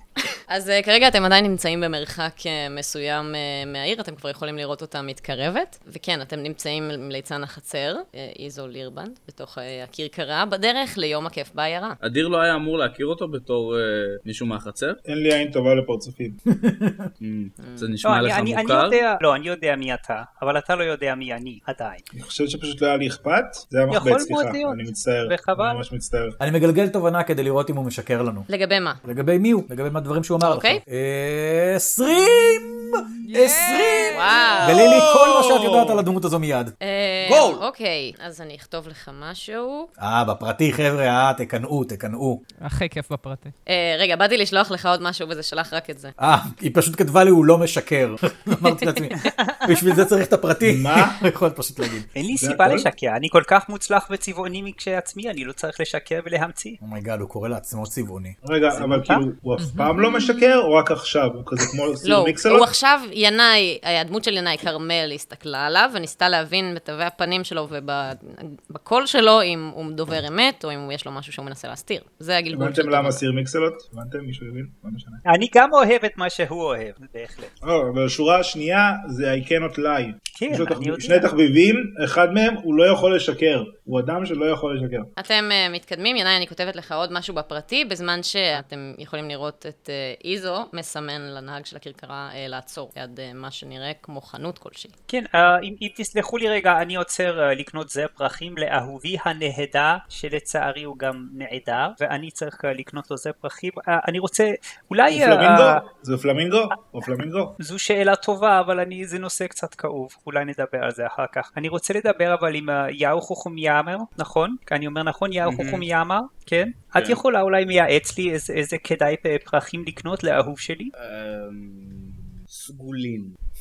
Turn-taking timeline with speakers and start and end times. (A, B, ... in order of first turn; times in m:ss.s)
0:00.5-0:12.0 A
0:12.0-0:15.0 B
0:15.0-0:16.4 C
0:16.5-0:17.1 D
0:17.2-0:19.0 B
0:17.6-0:17.9 A
0:18.0-0:22.0 E
0:22.1-0:26.4 C
0:23.9-0:25.8 E
0:26.4-0:28.5 D
0:28.5-0:29.0 A
0:29.0-0:37.6 D
0:30.4-0:30.8 A
0:33.3-0:35.0 F
0:34.1-0:34.9 A
0:36.8-0:39.9 A
0:40.0-0:42.4 D
0:42.6-0:43.5 F
0:43.7-0:46.1 A
0:46.2-0:52.1 D
0:49.2-0:49.7 E
0:50.6-0:51.2 C
0:52.1-0:56.8 E
0:52.4-0:52.9 C
0:56.8-0:58.4 D
0:58.4-1:02.7 C
0:58.7-0:59.2 E
0:59.6-1:00.3 F
1:02.0-1:13.2 A
1:12.5-1:15.2 C
1:15.2-1:17.5 E
1:17.6-1:25.1 C
1:20.4-1:21.3 E
1:25.2-1:34.9 A
1:35.1-1:45.8 E
1:45.1-1:47.5 C
1:47.6-2:00.9 E
1:55.4-1:55.8 B
1:57.0-1:57.2 B
2:01.0-2:03.3 B